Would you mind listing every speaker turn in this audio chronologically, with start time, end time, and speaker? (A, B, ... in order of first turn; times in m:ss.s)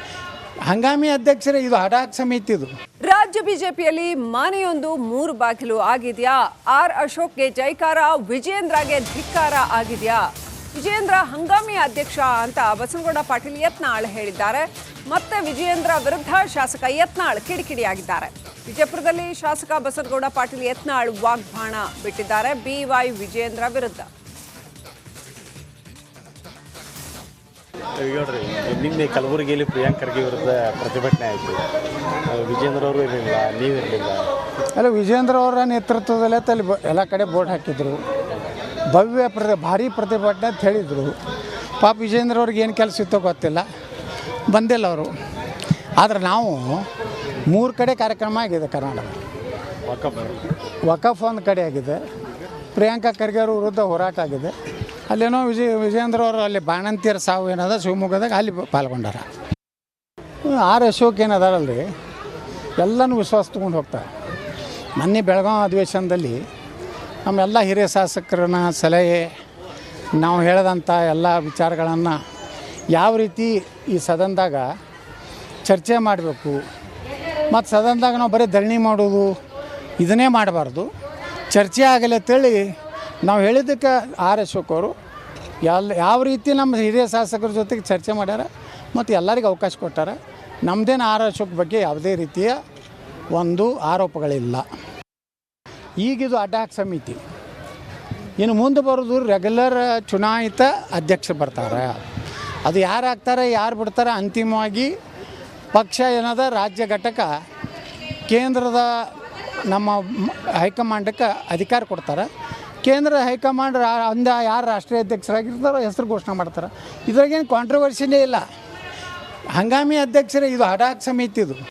0:00.7-0:02.7 A
0:03.1-0:24.1 B
0:28.0-0:31.6 C
0:32.3-0:34.3 C
0:34.8-0:38.0 A
0:38.9-0:41.2 A
0:41.8-0:43.6 A
0:44.5-0:45.1 A
0:46.0-0:46.9 A
0:47.5-0:49.2 A
0:49.8-0:50.4 C
0:50.8-0:52.0 A
0:52.7-0:54.5 A
0:55.1-0:59.2 A
1:00.4-1:01.9 A
1:02.8-1:04.1 A
1:05.0-1:06.4 A
1:07.2-1:09.3 A
1:10.2-1:12.2 A
1:12.9-1:14.6 A
1:15.6-1:16.6 A
1:17.5-1:19.3 A
1:20.0-1:20.9 A
1:21.5-1:24.9 A
1:25.6-1:32.6 A
1:33.3-1:34.6 A
1:36.0-1:37.2 A
1:38.4-1:42.0 A
1:42.6-1:44.9 A
1:45.7-1:47.3 A
1:48.3-1:49.1 A
1:49.7-1:52.3 A
1:52.8-1:58.4 A
1:59.5-2:01.6 A